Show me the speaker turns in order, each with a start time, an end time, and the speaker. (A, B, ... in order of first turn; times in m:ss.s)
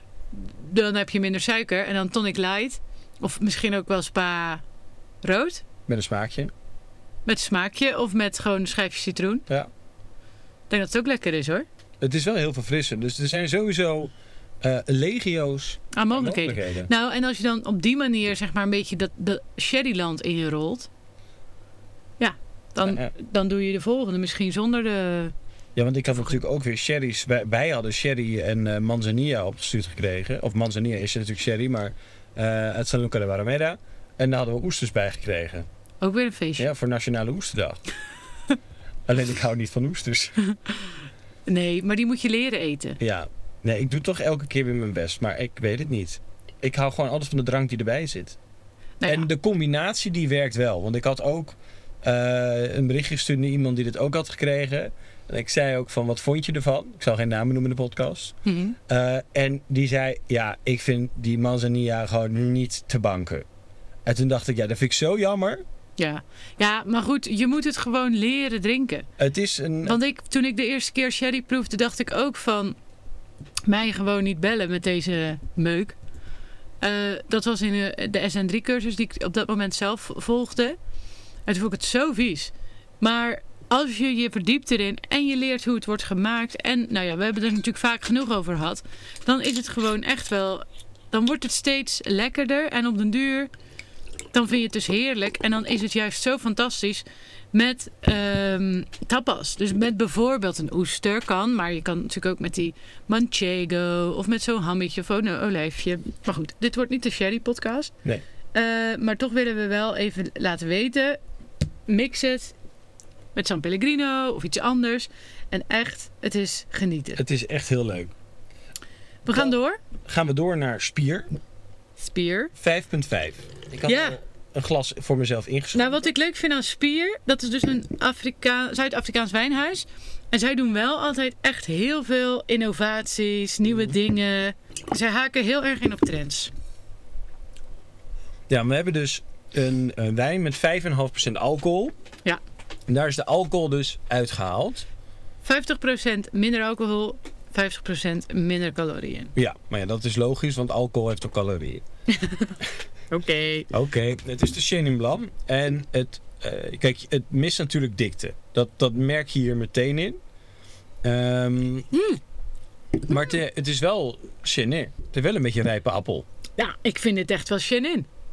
0:00.3-0:04.6 A
0:05.2-0:05.6 A
0:05.9-0:06.5 B
0:07.2-0:09.4 A
0:10.7-0:11.6 A
0:12.0-0:16.9 B
0:15.9-0:20.9 A
0:22.2-0:25.3 A
0:22.8-0:23.1 B
0:25.8-0:35.6 B
0:36.0-0:36.7 A
0:36.6-0:37.8 B
0:39.1-0:40.4 B
0:41.5-0:43.0 A
0:43.0-0:48.4 B
0:49.0-0:49.3 A
0:49.0-0:58.3 B
0:58.4-0:58.8 A
0:58.9-1:03.4 B
1:04.0-1:05.6 B
1:06.0-1:09.1 A
1:09.2-1:10.0 B
1:09.8-1:12.8 A
1:13.6-1:16.0 A
1:16.8-1:20.8 A
1:21.4-1:33.5 A
1:34.3-1:47.9 A
1:48.5-1:51.2 A
1:51.9-1:52.5 A
1:53.3-1:57.2 A
1:57.2-1:58.1 B
1:59.2-1:59.8 A
1:59.3-2:01.3 B
2:02.0-2:02.5 A
2:02.5-2:06.1 B
2:03.8-2:04.2 A
2:05.7-2:16.5 A
2:18.5-2:21.9 B
2:22.9-2:24.9 B
2:25.4-2:29.3 A
2:29.3-2:31.8 B
2:32.1-2:32.6 A
2:33.1-2:33.7 A
2:33.7-2:40.2 B
2:41.0-2:41.9 B
2:41.9-2:42.2 A
2:43.1-2:46.2 B
2:46.6-2:48.1 A